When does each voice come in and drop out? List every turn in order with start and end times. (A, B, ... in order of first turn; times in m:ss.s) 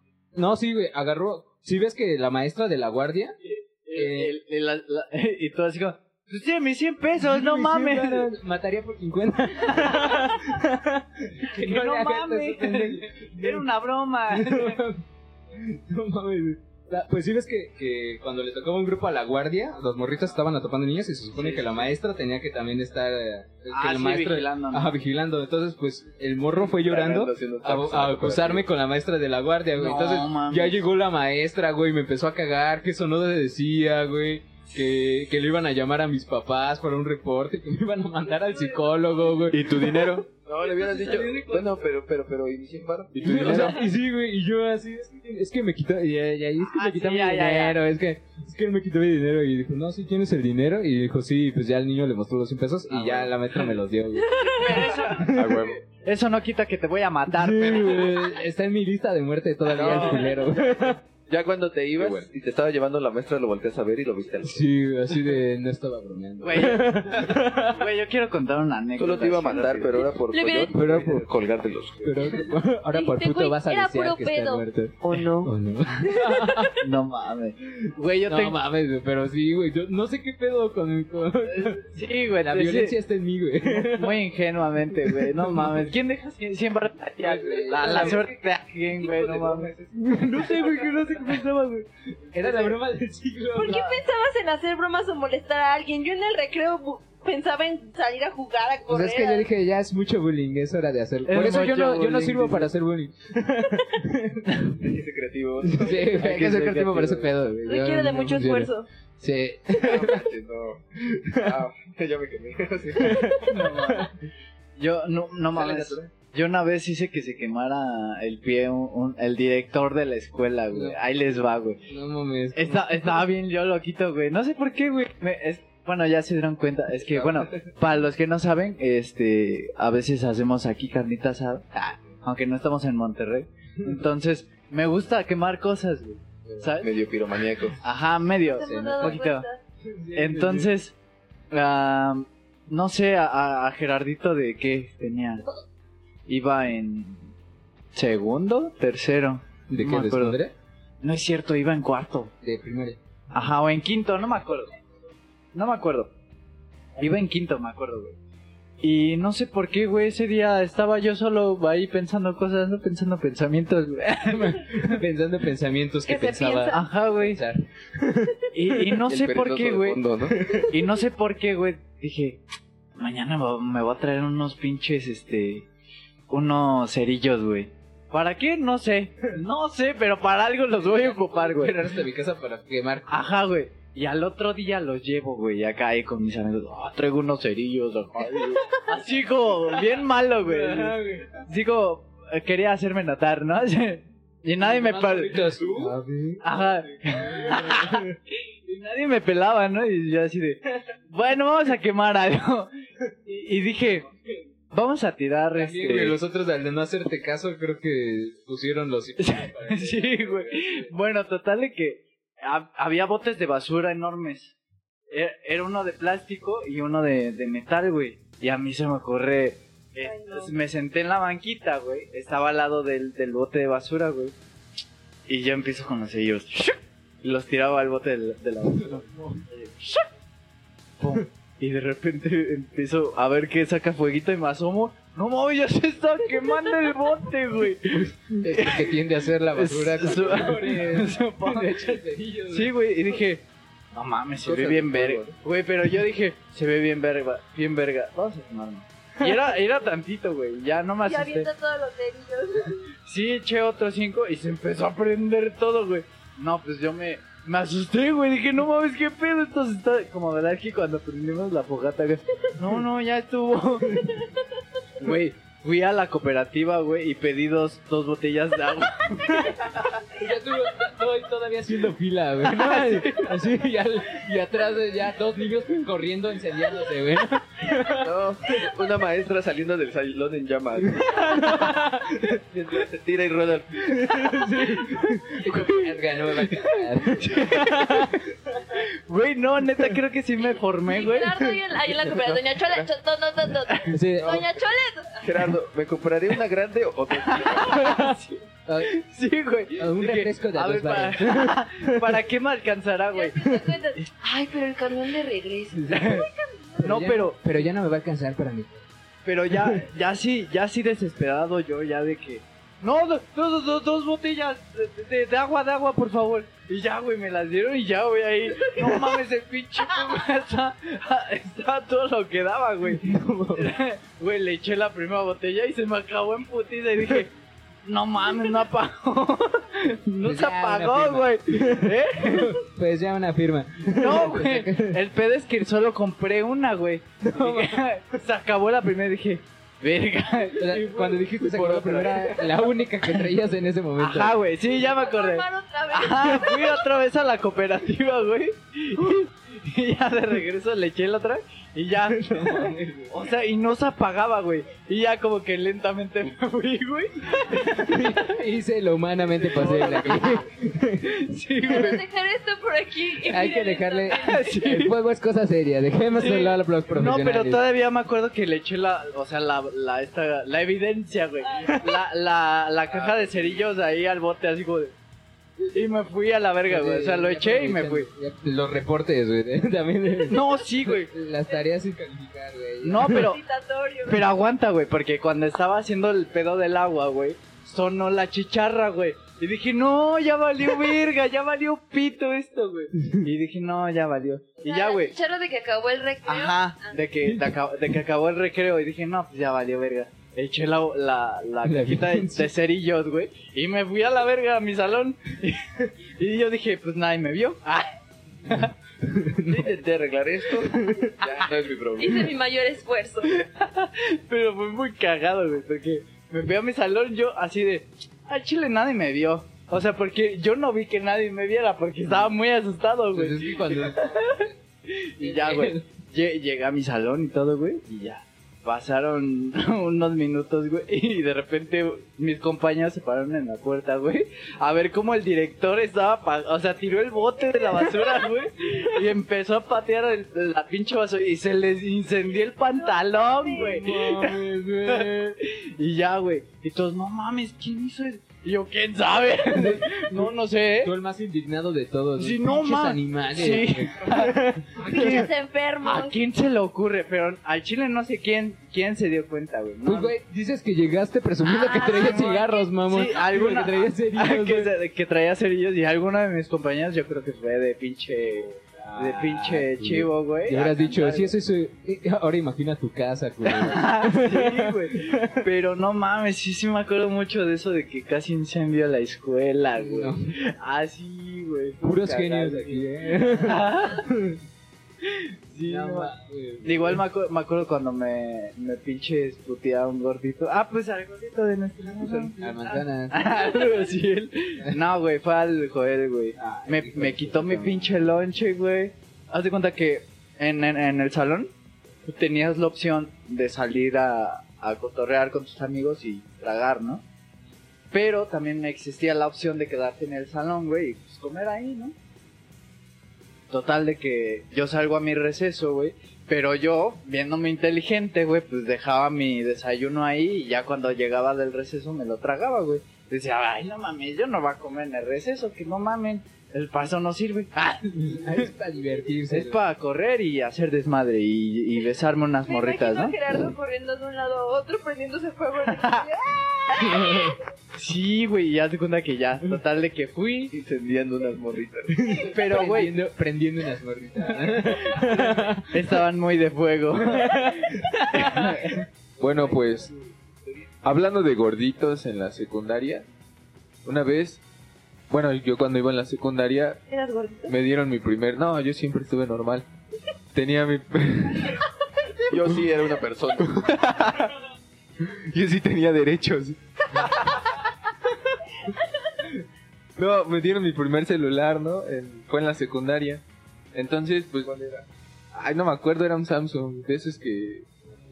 0:00.4-0:03.4 A
0:03.4-0:08.3 B
0:03.9-0:04.4 A
0:07.2-0:13.7 A
0:09.7-0:10.4 B
0:11.5-0:14.8 B
0:14.3-0:39.8 A
0:21.4-0:21.9 B
0:23.7-0:24.9 B
0:26.6-0:28.7 C
0:29.8-0:30.8 B
0:38.4-0:38.8 B
0:39.5-0:40.3 D
0:40.3-0:43.7 C
0:40.6-0:41.8 B
0:43.1-0:43.8 D
0:43.2-0:55.6 A
0:46.6-0:47.8 B
0:52.9-0:53.3 C
0:54.3-0:58.3 B
0:54.4-0:54.9 E
0:55.3-0:55.8 D
0:57.3-1:01.0 A
0:59.7-1:00.4 C
0:59.8-1:00.4 B
1:01.3-1:04.7 C
1:02.0-1:02.3 D
1:04.4-1:07.8 A
1:06.4-1:10.1 B
1:09.0-1:12.4 C
1:10.3-1:10.9 E
1:10.7-1:11.3 A
1:12.0-1:16.8 A
1:12.9-1:14.6 E
1:15.1-1:15.4 D
1:16.1-1:16.6 E
1:16.8-1:18.6 B
1:18.3-1:24.2 A
1:21.5-1:23.0 B
1:23.7-1:29.7 B
1:24.9-1:25.8 A
1:27.2-1:28.3 A
1:29.0-1:30.6 C
1:29.9-1:34.0 A
1:32.4-1:32.8 B
1:33.6-1:39.5 E
1:38.9-1:44.6 A
1:41.3-1:42.7 B
1:44.7-1:46.5 C
1:45.6-1:50.2 A
1:46.0-1:47.3 B
1:47.7-1:48.9 E
1:49.8-1:53.4 C
1:51.2-1:51.5 A
1:53.0-1:54.1 A
1:53.4-1:54.2 B
1:54.8-2:01.8 B
1:55.5-1:56.0 C
2:00.7-2:01.0 A
2:01.9-2:03.2 A
2:02.6-2:16.9 B
2:07.1-2:07.4 C
2:16.8-2:17.8 C
2:17.8-2:19.5 B
2:18.4-2:19.6 E
2:18.6-2:19.2 A
2:19.8-2:20.7 A
2:20.2-2:21.0 B
2:21.5-2:25.4 B
2:26.3-2:27.3 B
2:27.9-2:30.4 B
2:29.7-2:30.5 A
2:31.0-2:32.3 B
2:32.4-2:33.0 A
2:33.3-2:34.7 B
2:35.5-2:36.1 B
2:37.0-2:38.2 B
2:38.8-2:45.0 B
2:44.3-2:48.5 A
2:46.1-2:47.0 E
2:46.7-2:47.4 B
2:48.5-2:50.0 B
2:49.0-2:50.4 C
2:50.3-2:50.8 A
2:50.7-2:52.4 B
2:53.0-2:55.7 B
2:56.3-3:01.8 B
3:00.7-3:03.2 A
3:03.1-3:22.7 B
3:10.4-3:11.4 A
3:14.6-3:18.2 A
3:23.2-3:24.1 B
3:24.7-3:26.2 B
3:25.6-3:30.9 A
3:29.2-3:34.5 B
3:35.1-3:44.4 B
3:40.0-3:40.5 E
3:45.3-3:50.0 B
3:48.7-3:49.4 A
3:51.0-3:59.0 B
3:58.0-4:02.7 A
3:59.5-4:11.5 B
4:04.4-4:05.3 C
4:04.6-4:05.2 A
4:11.0-4:12.8 E
4:13.0-4:24.2 B
4:25.0-4:30.0 B
4:30.1-4:38.1 A
4:32.5-4:33.4 B
4:37.9-4:41.5 C
4:41.0-4:42.4 A
4:42.5-4:44.2 C
4:43.9-4:48.2 A
4:44.6-4:45.9 B
4:46.5-4:48.2 B
4:48.8-4:51.5 B
4:50.9-4:55.2 E
4:51.9-4:52.9 C
4:53.9-4:54.5 A
4:55.2-4:57.9 C
4:57.3-5:03.6 B
4:57.7-4:58.2 A
4:58.7-4:58.9 A
4:59.8-5:02.2 A
5:03.1-5:06.8 E
5:05.7-5:06.3 A
5:05.9-5:06.3 B
5:06.8-5:08.8 A
5:06.8-5:07.4 B
5:09.2-5:27.3 B
5:09.5-5:09.8 A
5:22.9-5:23.7 A
5:27.8-5:32.6 B
5:30.2-5:35.0 A
5:34.0-5:42.7 B
5:37.2-5:37.8 A
5:40.6-5:44.4 A
5:41.6-5:42.1 C
5:44.0-5:58.4 B
5:44.7-5:46.8 E
5:52.1-5:53.1 A
5:57.6-6:01.1 A
5:59.4-6:00.4 B
6:01.0-6:02.0 B
6:01.7-6:04.5 E
6:03.2-6:07.6 A
6:04.2-6:04.9 B
6:06.1-6:14.9 B
6:11.5-6:12.0 E
6:15.7-6:18.1 B
6:16.7-6:23.3 A
6:20.3-6:21.1 B
6:22.8-6:23.4 B
6:23.0-6:24.2 E
6:24.1-6:35.1 B
6:33.0-6:33.3 A
6:34.6-6:37.0 E
6:36.3-6:47.9 B
6:37.2-6:37.5 A
6:41.6-6:42.5 A
6:48.5-6:48.7 B
6:48.5-6:49.7 A
6:49.5-6:52.3 C
6:50.7-6:51.2 A
6:51.2-6:51.5 B
6:52.0-6:53.3 E
6:53.3-7:30.9 B
7:03.1-7:04.6 A
7:05.2-7:05.8 A
7:22.7-7:23.8 E
7:23.5-7:25.3 A
7:29.5-7:30.3 A
7:30.8-7:35.2 A
7:32.2-7:35.3 B
7:34.8-7:36.2 E
7:35.8-7:40.2 B
7:39.8-7:44.7 A
7:41.5-7:42.7 E
7:41.8-7:51.3 B
7:48.5-7:55.4 A
7:53.5-8:04.1 B
7:59.8-8:00.3 A
8:01.8-8:04.4 A
8:05.0-8:06.1 B
8:05.6-8:07.0 A
8:06.6-8:21.5 B
8:12.0-8:13.6 A
8:16.4-8:18.0 A
8:22.0-8:27.0 B
8:27.9-8:32.0 B
8:33.5-8:48.5 B
8:48.0-8:49.6 A
8:49.3-8:53.2 B
8:52.5-8:57.4 E
8:55.7-8:56.1 B
8:56.8-8:57.2 B
8:56.9-8:57.3 A
8:57.7-9:00.5 B
9:00.5-9:02.2 C
9:01.9-9:06.0 A
9:02.2-9:02.9 B
9:04.4-9:08.8 B
9:07.0-9:08.7 A
9:09.2-9:09.9 D
9:10.8-9:13.1 D
9:13.8-9:14.4 D
9:15.1-9:16.8 D
9:16.9-9:17.5 E
9:17.5-9:19.7 D
9:20.3-9:21.6 D
9:22.3-9:23.6 C
9:22.3-9:22.6 D
9:23.4-9:24.3 D
9:25.0-9:27.6 D
9:30.0-9:33.2 D
9:33.7-9:34.5 D
9:34.4-9:34.8 C
9:35.3-9:37.7 D